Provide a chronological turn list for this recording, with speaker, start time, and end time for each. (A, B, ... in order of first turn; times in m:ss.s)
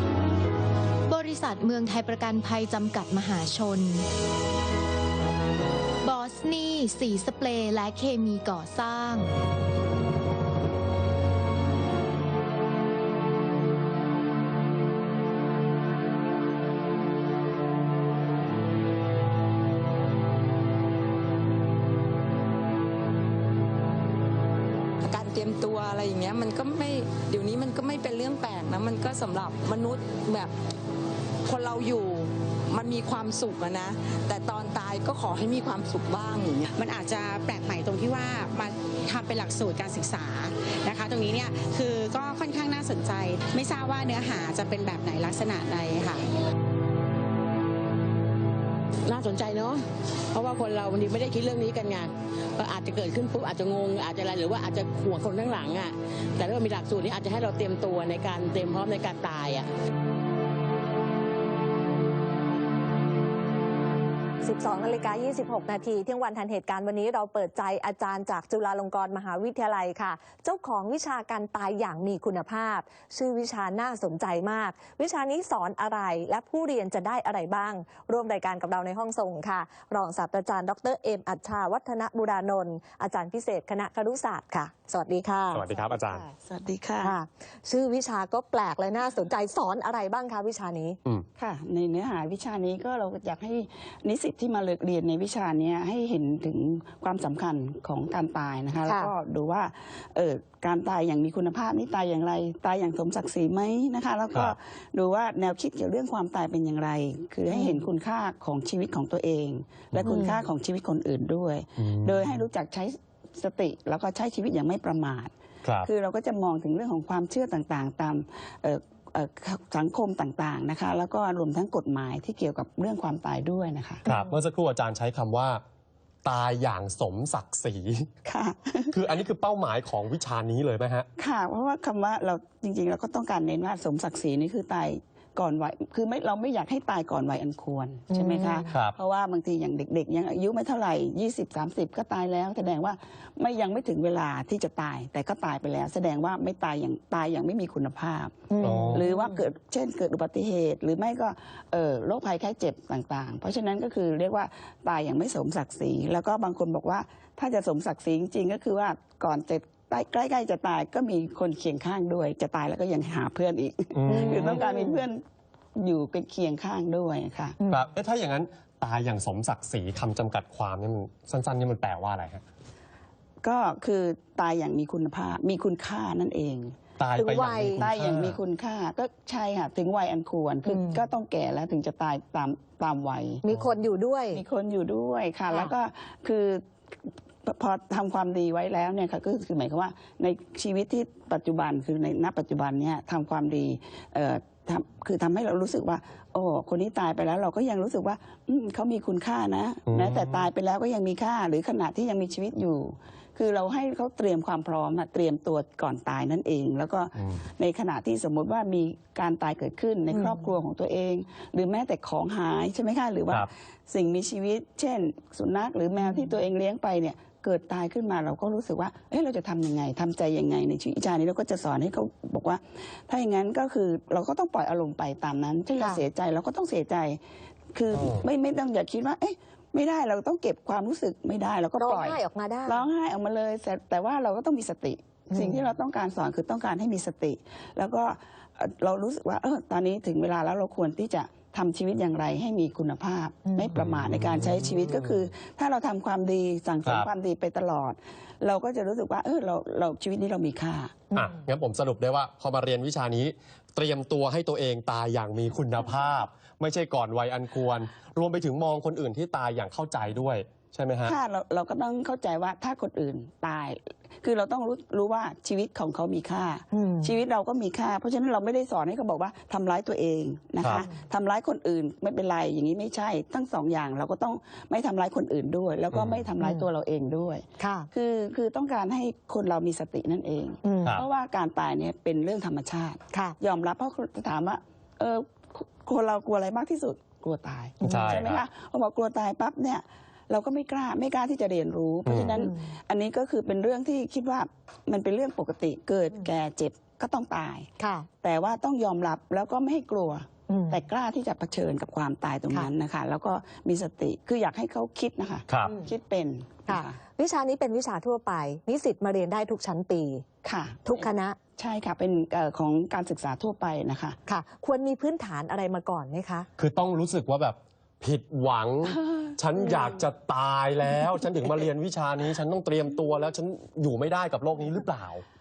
0:01.1-0:04.0 A
0:06.0-0:09.3 A
0:25.0-0:30.5 B
0:31.4-0:36.6 B
0:36.7-0:46.3 C
0:49.1-0:49.8 D
0:50.3-0:59.6 D
1:04.4-1:25.6 E
1:25.5-1:26.2 F
1:25.6-1:27.1 G
1:27.0-1:31.0 E
1:31.4-1:55.3 G
1:38.8-1:39.1 E
1:47.5-1:47.8 E
1:49.9-1:50.2 F
1:50.0-1:50.4 E
1:51.8-1:52.4 F
1:55.6-1:55.9 F
1:55.8-2:04.0 G
2:04.0-2:05.6 F
2:06.2-2:08.1 F
2:08.2-2:08.9 G
2:08.9-2:11.1 F
2:11.2-2:45.2 G
2:18.1-2:18.7 E
2:18.7-2:19.0 F
2:28.5-2:29.3 E
2:28.6-2:29.0 F
2:43.9-2:44.6 F
2:44.1-2:45.0 E
2:45.8-2:47.6 G
2:47.7-2:52.4 F
2:53.4-2:56.8 G
2:57.0-2:58.4 F
2:57.2-2:57.8 E
2:57.8-3:03.4 G
3:00.6-3:01.0 E
3:03.4-3:04.4 E
3:04.3-3:06.6 G
3:07.4-3:47.2 G
3:19.9-3:20.5 F
3:27.2-3:27.4 F
3:30.1-3:30.4 E
3:36.0-3:36.3 E
3:47.7-4:11.0 G
3:47.9-3:48.2 F
3:51.8-3:52.8 E
3:55.3-3:55.6 E
4:03.4-4:03.7 E
4:03.7-4:05.3 F
4:06.8-4:07.1 F
4:11.1-4:21.2 F
4:21.0-4:57.7 G
4:26.7-4:27.1 E
4:30.6-4:30.9 F
4:35.9-4:36.2 F
4:36.4-4:36.7 E
4:37.6-4:37.9 E
4:40.6-4:41.0 E
4:43.1-4:43.4 E
4:47.8-4:48.2 E
4:47.8-4:48.4 F
4:52.0-4:52.4 F
4:57.8-4:58.1 E
4:58.2-5:07.0 G
5:00.5-5:00.8 E
5:05.5-5:05.7 F
5:06.7-5:10.2 E
5:10.4-5:14.2 G
5:10.8-5:11.4 E
5:14.3-5:16.5 E
5:16.6-5:25.2 F